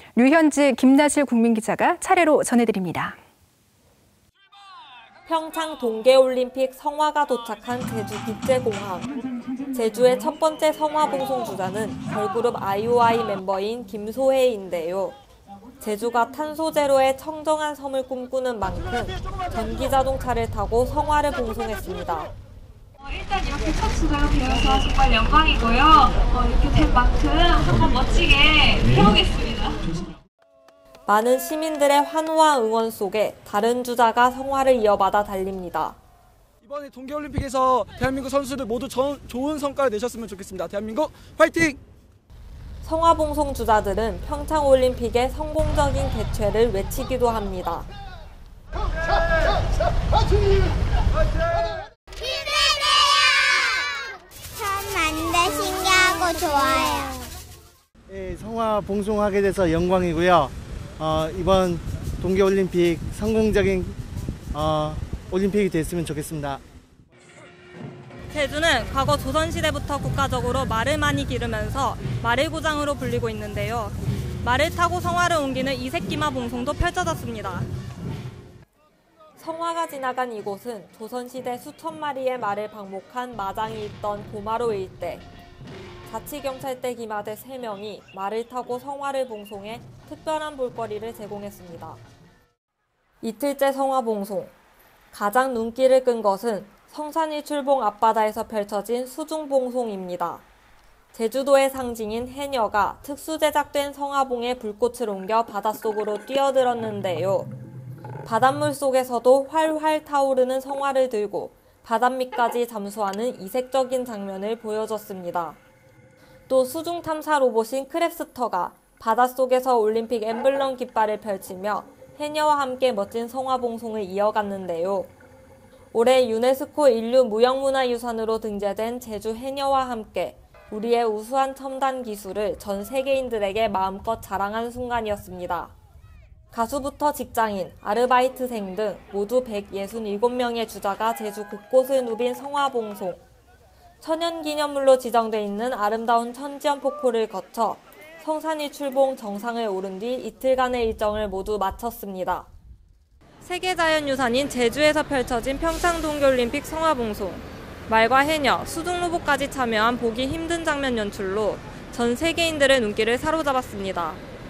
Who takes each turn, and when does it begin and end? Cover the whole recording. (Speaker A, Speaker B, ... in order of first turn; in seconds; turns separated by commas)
Speaker A: 0.1-3.2, Speaker B: 5.2-9.1, Speaker B: 9.7-15.2, Speaker B: 15.8-22.3, Speaker C: 23.1-29.9, Speaker B: 31.1-36.0, Speaker D: 36.6-41.8, Speaker B: 42.8-47.9, Speaker E: 52.2-53.6, Speaker E: 54.5-57.2, Speaker F: 58.1-64.0, Speaker F: 64.5-66.6, Speaker B: 68.3-77.7, Speaker B: 79.4-85.2, Speaker B: 86.0-92.0, Speaker B: 93.2-94.5, Speaker B: 95.1-100.4, Speaker B: 101.1-107.5, Speaker B: 108.2-115.6, Speaker B: 116.5-125.1, Speaker B: 125.9-135.7, Speaker B: 136.5-143.2, Speaker B: 144.0-152.5, Speaker B: 153.4-164.2